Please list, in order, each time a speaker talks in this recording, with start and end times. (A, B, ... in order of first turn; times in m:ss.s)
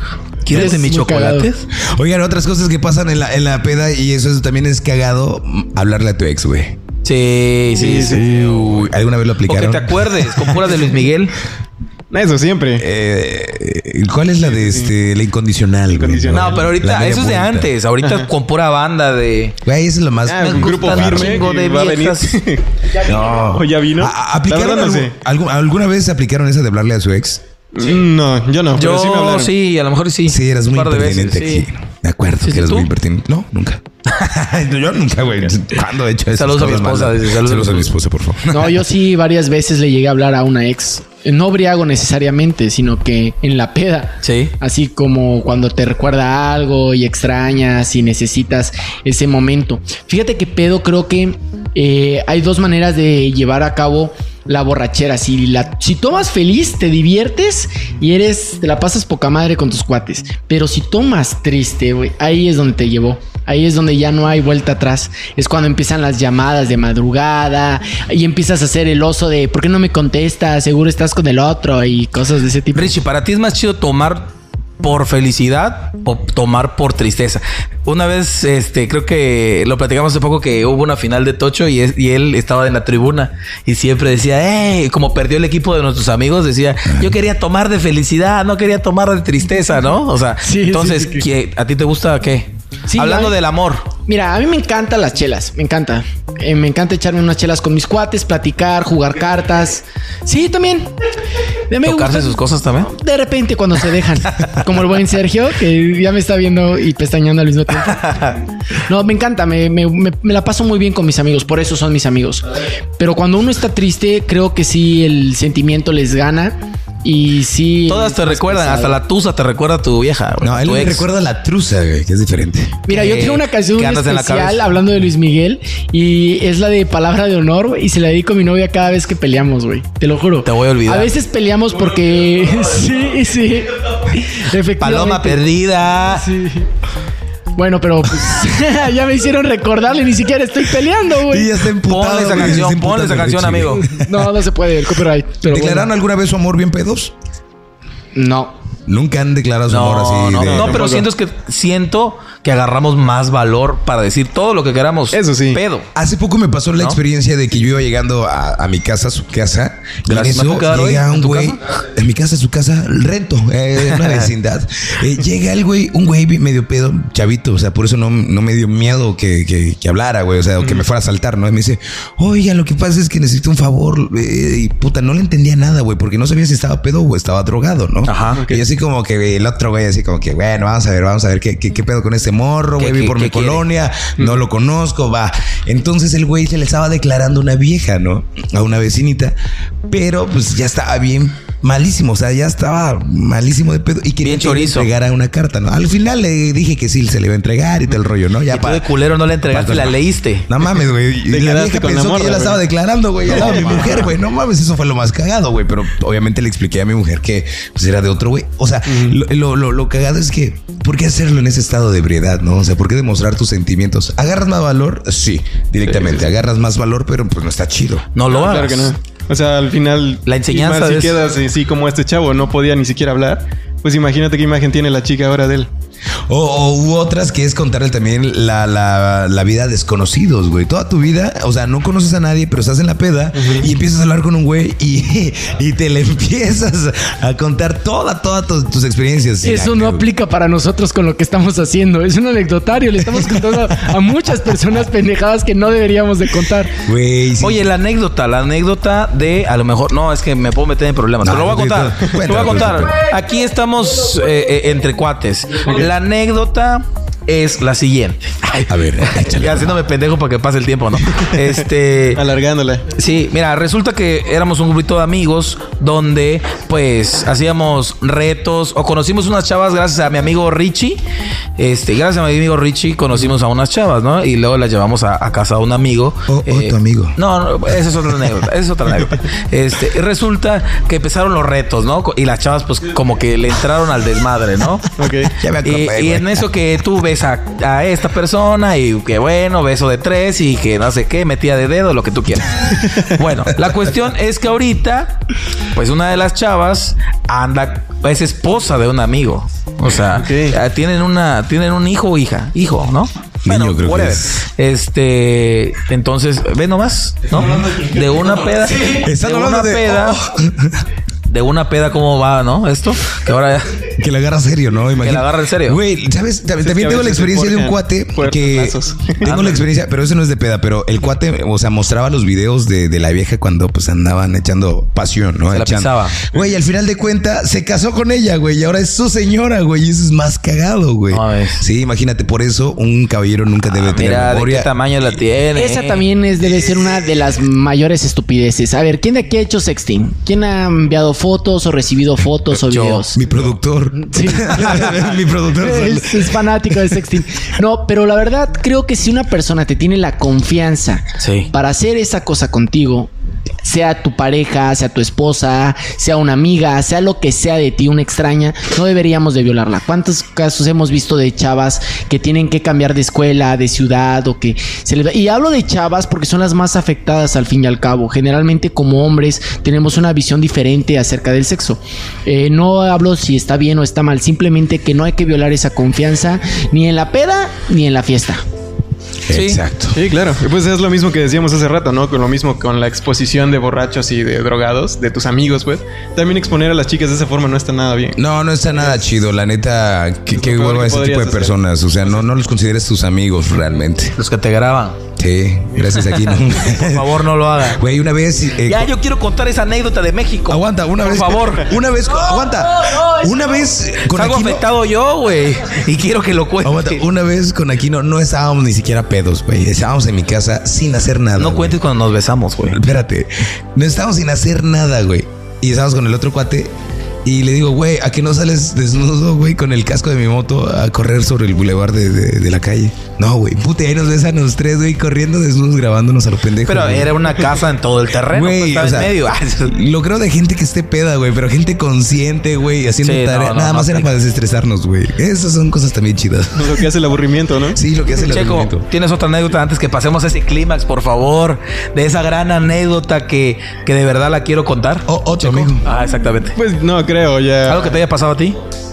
0:00.5-0:01.7 A
0:00.5-0:01.5 B
0:01.7-0:06.8 C
0:07.0-0:08.7 A
0:07.8-0:08.3 D
0:07.9-0:10.8 C
0:09.5-0:11.4 A
0:12.1-0:12.8 D
0:12.8-0:17.7 C
0:14.4-0:14.9 D
0:15.9-0:16.7 D
0:16.3-0:19.6 A
0:18.0-0:18.3 D
0:19.6-0:21.5 C
0:20.3-0:25.1 D
0:20.4-0:22.4 A
0:23.0-0:27.4 C
0:27.7-0:29.5 D
0:28.7-0:31.7 A
0:30.3-0:38.7 C
0:32.4-0:32.9 A
0:36.4-0:37.9 A
0:38.5-1:13.0 B
0:44.2-0:44.6 A
1:12.7-1:33.9 A
1:30.4-1:31.2 B
1:32.9-1:33.4 B
1:34.1-1:40.9 B
1:41.7-1:48.2 B
1:41.8-1:42.9 A
1:47.8-1:48.4 A
1:48.8-1:59.0 B
1:57.9-2:01.1 A
2:00.4-2:02.8 C
2:02.9-2:15.4 B
2:02.9-2:04.6 A
2:10.4-2:11.1 A
2:14.8-2:16.3 A
2:16.1-2:16.7 B
2:17.6-2:21.5 B
2:21.3-2:24.3 C
2:21.8-2:23.8 A
2:23.8-2:25.9 B
2:25.5-2:27.1 C
2:28.2-2:28.6 B
2:28.9-2:30.8 C
2:29.7-2:35.9 A
2:30.4-2:31.1 D
2:35.1-2:35.6 D
2:36.0-3:09.4 C
2:40.1-2:41.6 A
2:44.0-2:44.2 A
2:58.1-2:58.4 A
2:58.3-2:58.6 D
3:02.8-3:03.6 A
3:09.9-3:18.9 C
3:14.2-3:14.9 A
3:18.5-3:20.5 A
3:19.5-3:38.1 C
3:21.3-3:22.6 D
3:23.3-3:24.1 D
3:23.4-3:24.0 A
3:28.9-3:29.2 D
3:35.9-3:36.2 D
3:38.2-3:38.9 A
3:38.3-3:45.7 D
3:40.3-3:41.2 A
3:46.3-4:00.1 C
3:53.4-3:53.7 D
3:59.4-4:06.7 B
4:03.1-4:03.7 C
4:06.8-4:07.7 C
4:07.4-4:22.2 A
4:11.2-4:13.0 C
4:18.7-4:19.8 C
4:22.2-4:22.9 D
4:22.9-4:31.0 A
4:31.6-4:45.0 A
4:36.3-4:37.2 C
4:45.0-4:45.3 D
4:45.4-4:46.5 C
4:45.6-4:55.2 A
4:55.7-5:10.2 A
5:00.2-5:00.6 D
5:03.4-5:04.4 C
5:08.8-5:10.8 C
5:11.3-5:13.8 A
5:13.9-5:34.7 C
5:15.0-5:15.8 A
5:16.6-5:19.4 D
5:19.2-5:19.6 A
5:25.5-5:26.2 A
5:31.1-5:31.6 A
5:33.7-5:36.0 A
5:35.5-5:43.2 B
5:36.4-5:37.1 C
5:42.6-5:43.0 A
5:43.1-5:46.9 C
5:43.9-5:53.1 B
5:51.2-5:51.5 A
5:53.6-6:18.4 B
6:19.3-6:20.0 C
6:19.3-6:19.6 A
6:19.9-6:28.2 D
6:28.2-6:34.2 C
6:30.3-6:31.6 D
6:34.2-6:35.0 A
6:35.2-6:38.9 C
6:36.0-6:37.8 A
6:38.6-6:41.8 A
6:40.5-6:44.7 C
6:42.8-6:43.3 B
6:44.0-6:47.0 A
6:46.6-6:51.8 C
6:51.4-6:52.8 A
6:52.7-6:56.7 C
6:57.2-7:07.2 C
7:06.6-7:09.8 A
7:08.3-7:16.8 C
7:13.0-7:14.1 A
7:16.6-7:17.8 D
7:17.8-7:18.9 C
7:18.2-7:26.6 A
7:25.1-7:25.8 C
7:26.6-7:28.0 D
7:27.6-7:28.6 A